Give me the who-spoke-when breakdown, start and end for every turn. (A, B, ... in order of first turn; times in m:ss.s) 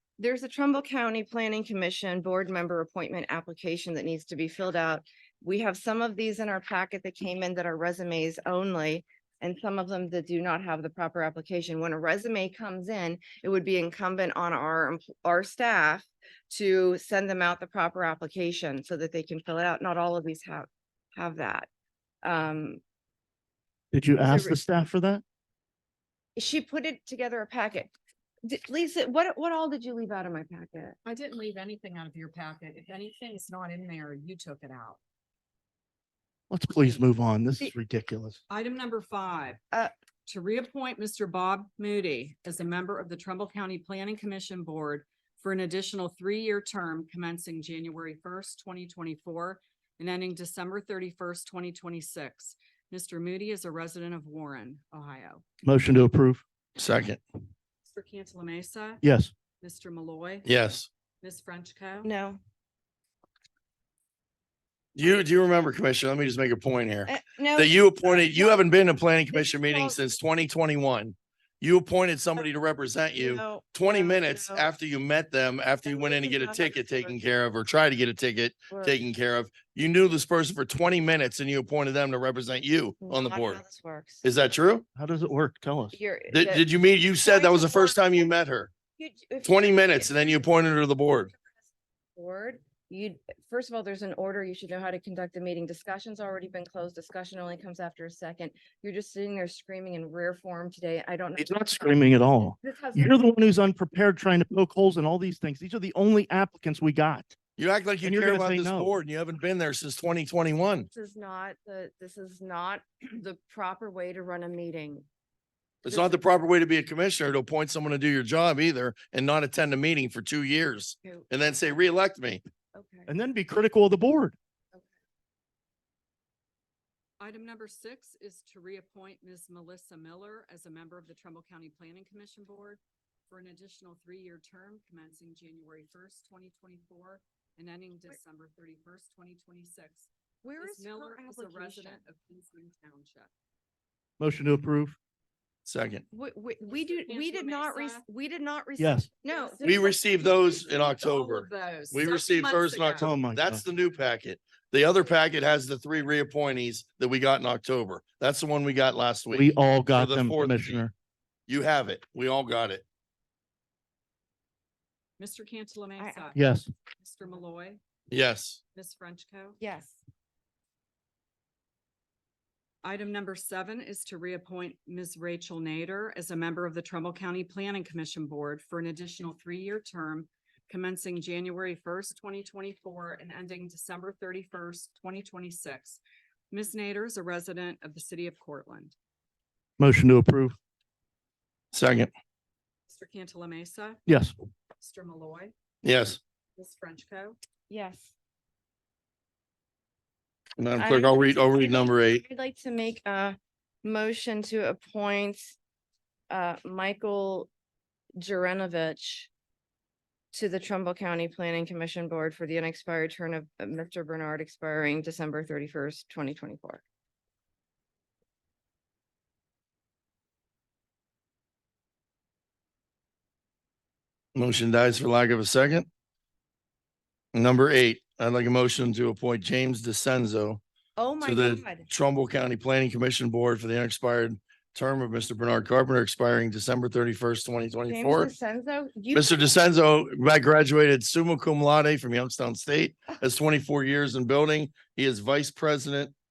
0:00.2-0:21.7 A
0:22.2-0:22.8 A
0:23.9-0:25.2 B
0:24.2-0:24.6 C
0:26.4-0:27.9 A
0:28.4-0:31.0 A
0:31.0-0:35.0 C
0:36.5-0:38.4 B
0:38.5-0:39.6 C
0:40.3-0:55.4 C
0:55.6-0:56.4 B
0:56.8-0:57.2 D
0:57.8-0:59.0 C
0:59.0-0:59.3 B
0:59.6-1:00.5 C
1:00.4-1:00.9 D
1:01.2-1:02.1 C
1:02.0-1:02.4 A
1:05.0-1:23.6 D
1:07.1-1:08.7 A
1:09.3-1:10.0 A
1:13.2-1:14.7 A
1:15.9-1:17.2 A
1:23.0-1:24.2 A
1:24.2-1:24.9 D
1:25.0-1:26.0 B
1:25.9-1:26.6 A
1:26.3-1:28.7 D
1:27.2-1:28.3 A
1:29.0-1:30.5 A
1:29.4-1:31.3 D
1:32.2-1:43.2 A
1:41.4-1:47.4 B
1:47.6-1:50.9 D
1:48.0-1:48.9 B
1:50.9-1:55.0 A
1:55.8-2:02.4 D
1:55.9-1:56.2 A
2:01.0-2:01.3 A
2:02.7-2:03.1 A
2:03.1-2:04.4 B
2:07.2-2:23.3 C
2:20.4-2:22.0 A
2:24.2-2:25.0 B
2:25.6-2:26.0 D
2:26.1-2:30.4 A
2:26.7-2:28.0 C
2:28.8-2:29.1 B
2:29.3-2:33.1 C
2:29.6-2:40.8 D
2:33.0-2:33.6 B
2:39.3-2:40.9 B
2:41.5-2:42.8 D
2:45.2-2:46.4 C
2:46.0-2:46.3 A
2:46.4-2:46.7 B
2:47.0-2:47.8 C
2:48.1-2:48.6 D
2:48.8-2:49.6 C
2:49.6-2:50.0 A
2:52.8-3:08.9 C
3:09.8-3:10.6 B
3:11.7-3:12.1 D
3:12.9-3:14.0 C
3:14.1-3:14.4 B
3:14.8-3:15.5 C
3:15.8-3:16.2 D
3:16.6-3:17.4 C
3:17.7-3:18.1 A
3:20.6-3:22.2 D
3:20.8-3:25.6 A
3:26.3-3:27.5 A
3:28.2-3:29.3 A
3:30.3-3:36.8 A
3:44.4-3:45.9 D
3:47.3-3:50.6 D
3:51.0-3:51.9 A
3:51.2-3:58.3 D
3:57.9-3:59.5 A
3:59.1-4:06.1 D